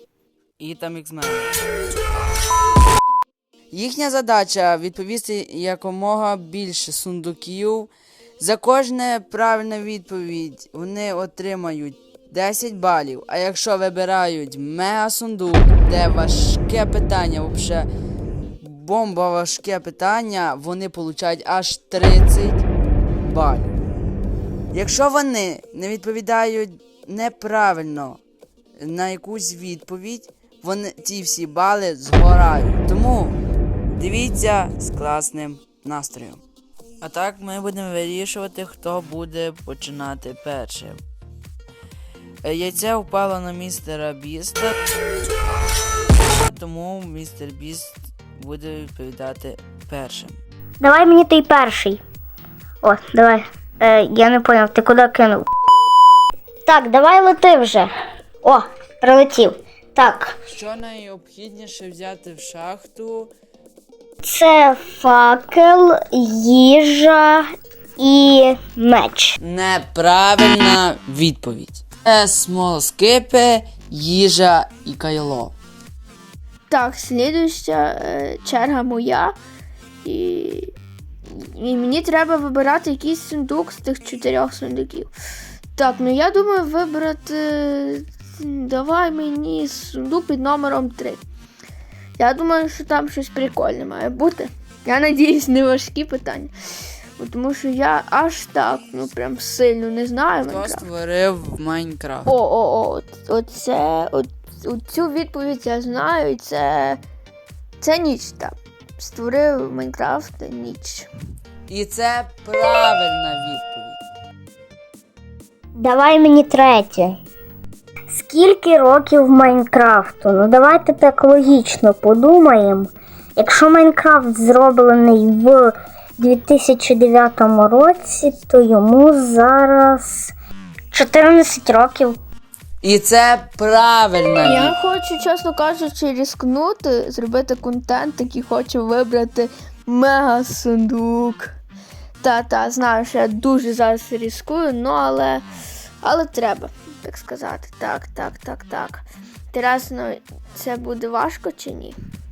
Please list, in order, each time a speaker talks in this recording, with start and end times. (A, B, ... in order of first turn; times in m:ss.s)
0:00.6-0:01.5 A
0:03.7-0:17.9 A
0:18.6-0:22.6 A
0:23.2-0:23.7 A
0:24.7-0:28.2 A
0:28.8-0:33.4 A
0:33.9-0:36.4 A
0:37.0-0:41.0 A
0:42.4-0:44.7 A
0:46.4-0:50.4 A
0:50.8-0:52.0 B
0:52.8-0:55.5 B
0:56.6-0:57.9 B
0:58.4-1:00.3 B
1:00.5-1:03.3 A
1:04.2-1:07.4 B
1:08.0-1:09.4 B
1:09.4-1:15.5 A
1:16.7-1:19.4 C
1:20.0-1:20.7 C
1:21.3-1:25.1 C
1:25.8-1:31.2 C
1:32.2-1:36.5 C
1:37.2-1:40.8 C
1:40.4-1:42.3 A
1:42.3-1:47.0 C
1:47.8-1:51.1 C
1:51.7-1:54.0 A
1:55.8-1:57.1 B
1:58.1-2:10.3 B
2:10.9-2:12.2 B
2:12.8-2:14.7 A
2:14.4-2:21.5 C
2:22.2-2:25.4 C
2:26.0-2:32.0 C